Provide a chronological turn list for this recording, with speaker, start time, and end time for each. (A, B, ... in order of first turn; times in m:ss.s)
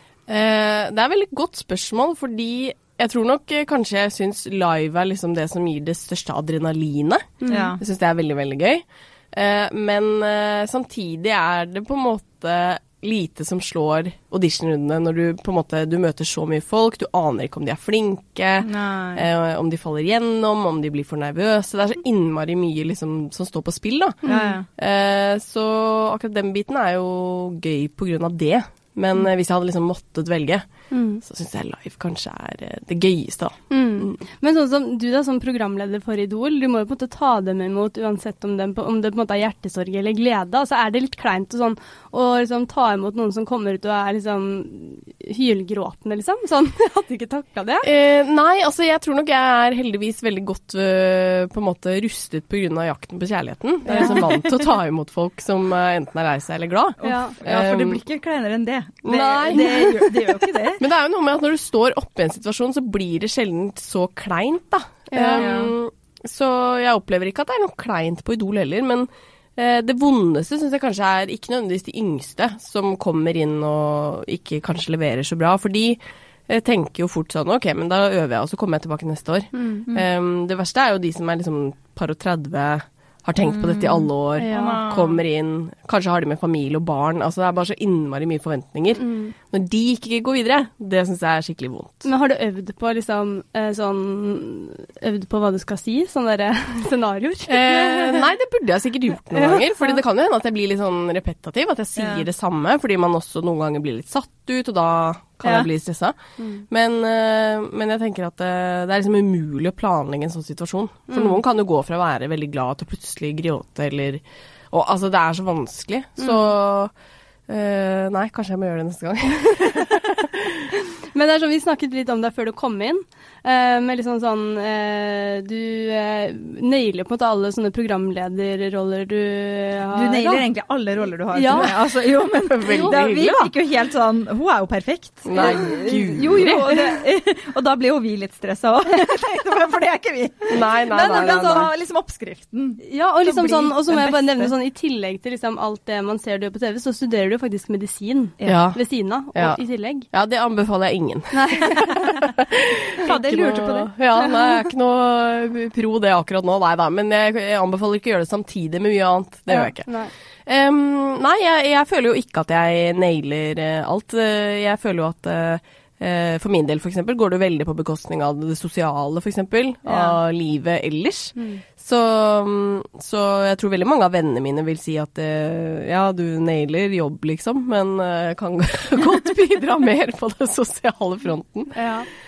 0:00.3-0:30.6 A
0:07.4-0:07.7 B
0:07.5-0:07.8 C
0:18.6-0:19.2 C
0:24.2-0:24.7 C
0:24.3-0:24.6 B
0:30.9-0:31.2 B
0:31.2-0:34.2 A
0:33.7-0:47.9 B
0:47.8-0:58.0 A
0:53.9-0:54.3 B
0:53.9-0:54.6 C
0:57.0-1:00.8 C
0:57.0-0:57.4 B
0:59.0-1:00.2 A
0:59.5-0:59.9 B
1:00.8-1:32.1 A
1:05.1-1:05.5 B
1:05.4-1:05.7 C
1:19.6-1:19.8 B
1:23.4-1:25.2 C
1:24.4-1:24.9 B
1:29.0-1:29.3 B
1:32.0-1:38.3 B
1:37.5-1:46.2 A
1:39.3-1:40.0 B
1:42.0-1:42.2 C
1:45.4-1:45.7 C
1:46.4-1:46.6 B
1:46.7-1:56.9 A
1:51.1-1:51.4 B
1:57.5-2:00.7 A
2:01.1-2:10.4 B
2:09.9-2:24.5 C
2:11.3-2:11.8 B
2:12.5-2:13.5 A
2:12.7-2:13.0 B
2:15.2-2:16.8 A
2:20.5-2:21.7 A
2:22.8-2:30.1 B
2:28.5-2:28.8 A
2:29.4-2:29.6 A
2:30.1-2:39.9 A
2:31.3-2:32.3 B
2:33.0-2:33.9 C
2:33.0-2:34.6 B
2:39.5-2:40.1 B
2:40.5-3:01.8 A
2:49.9-2:50.2 C
2:51.4-2:51.6 B
3:01.8-3:02.1 B